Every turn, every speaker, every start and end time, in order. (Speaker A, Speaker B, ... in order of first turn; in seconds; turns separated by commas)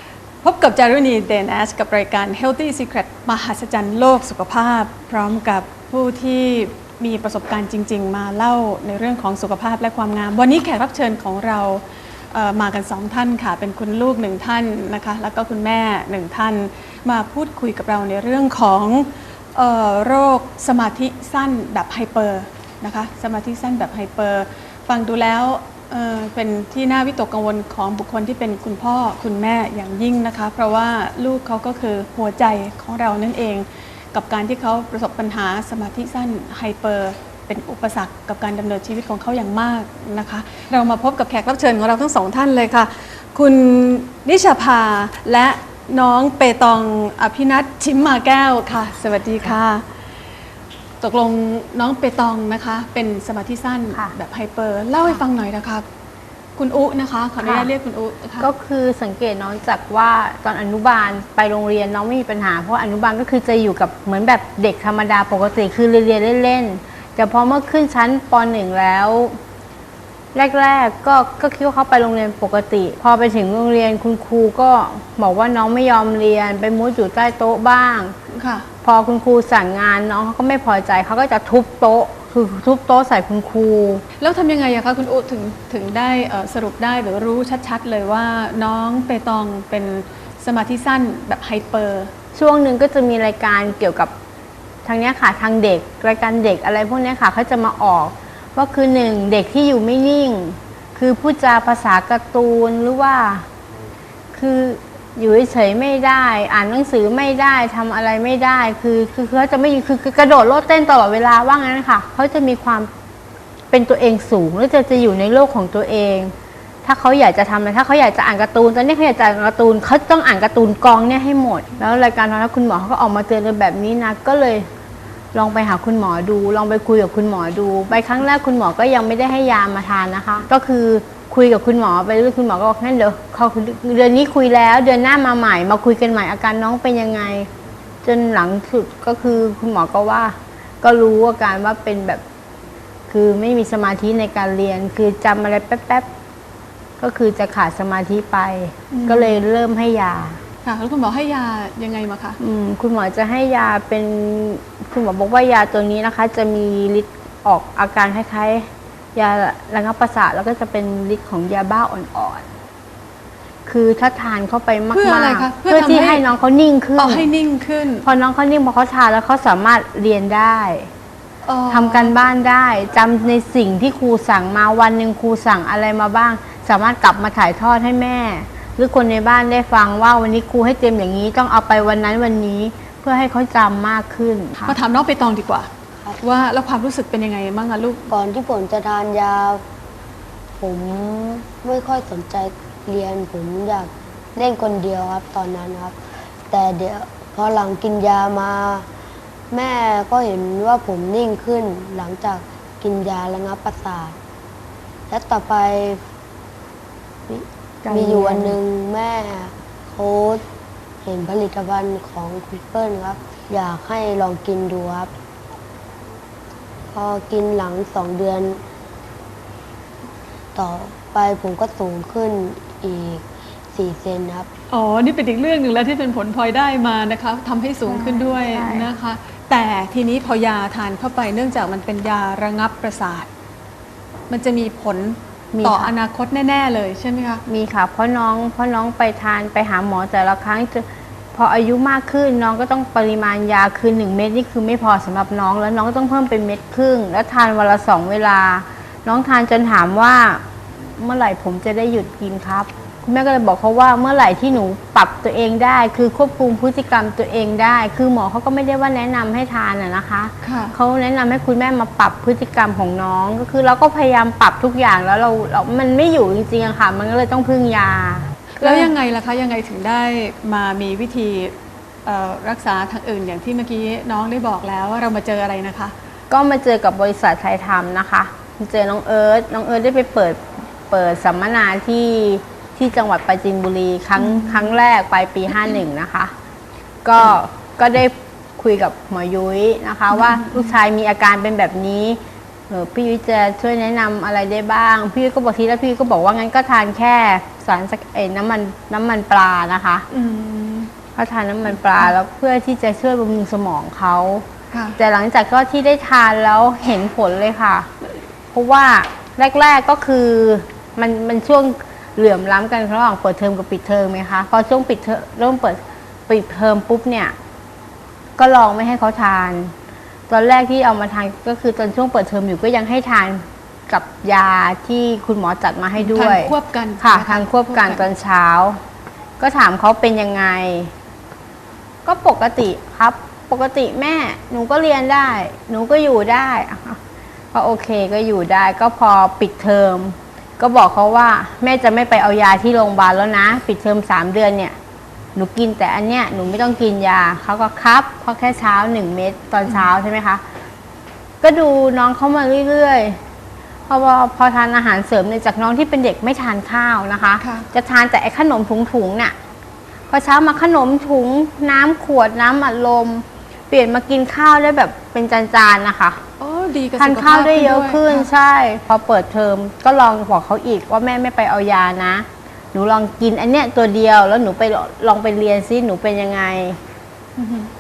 Speaker A: 0.4-49.8, Speaker A: 51.0-55.8, Speaker A: 56.6-58.5, Speaker B: 57.4-57.7, Speaker B: 58.4-69.3, Speaker B: 70.3-78.1, Speaker A: 78.3-78.7, Speaker B: 78.8-84.0, Speaker A: 84.2-92.1, Speaker B: 92.3-94.1, Speaker B: 94.8-103.5, Speaker B: 104.3-112.9, Speaker B: 113.7-116.3, Speaker B: 116.8-124.7, Speaker B: 125.3-137.5, Speaker B: 138.0-142.2, Speaker B: 143.1-146.1, Speaker B: 147.0-150.4, Speaker A: 148.9-149.4, Speaker A: 150.7-152.4, Speaker B: 152.4-162.5, Speaker B: 163.7-167.3, Speaker A: 164.9-166.2, Speaker A: 167.0-168.0, Speaker B: 168.0-170.9, Speaker A: 171.4-172.1, Speaker B: 171.7-184.8, Speaker A: 184.7-185.7, Speaker A: 186.2-188.1, Speaker C: 188.1-189.6, Speaker C: 190.6-195.9, Speaker C: 196.5-198.9, Speaker C: 199.5-204.2, Speaker C: 205.1-206.0, Speaker C: 207.3-210.4, Speaker B: 207.8-208.6, Speaker C: 211.0-215.1, Speaker C: 216.9-218.6, Speaker C: 220.5-224.5, Speaker A: 224.7-233.3, Speaker B: 227.8-228.9, Speaker A: 234.3-237.4, Speaker B: 235.5-235.9, Speaker B: 237.5-250.4, Speaker B: 251.0-268.9, Speaker A: 260.4-260.8, Speaker A: 268.6-271.5, Speaker A: 272.1-275.9, Speaker B: 276.3-286.3, Speaker A: 284.2-284.7, Speaker B: 287.0-300.1, Speaker A: 290.1-290.7, Speaker A: 300.1-300.9, Speaker B: 301.1-304.4, Speaker A: 301.8-302.1, Speaker A: 304.7-305.0, Speaker B: 305.0-307.9, Speaker B: 308.5-317.3, Speaker B: 318.4-319.7, Speaker B: 320.3-328.8, Speaker A: 325.9-328.1, Speaker B: 329.4-330.9, Speaker B: 332.1-337.0, Speaker B: 337.5-344.8, Speaker B: 345.3-350.4, Speaker B: 351.4-353.2, Speaker B: 353.9-359.3, Speaker A: 357.4-357.6, Speaker B: 360.1-366.2, Speaker A: 366.4-368.3, Speaker B: 367.0-376.8, Speaker A: 377.4-377.7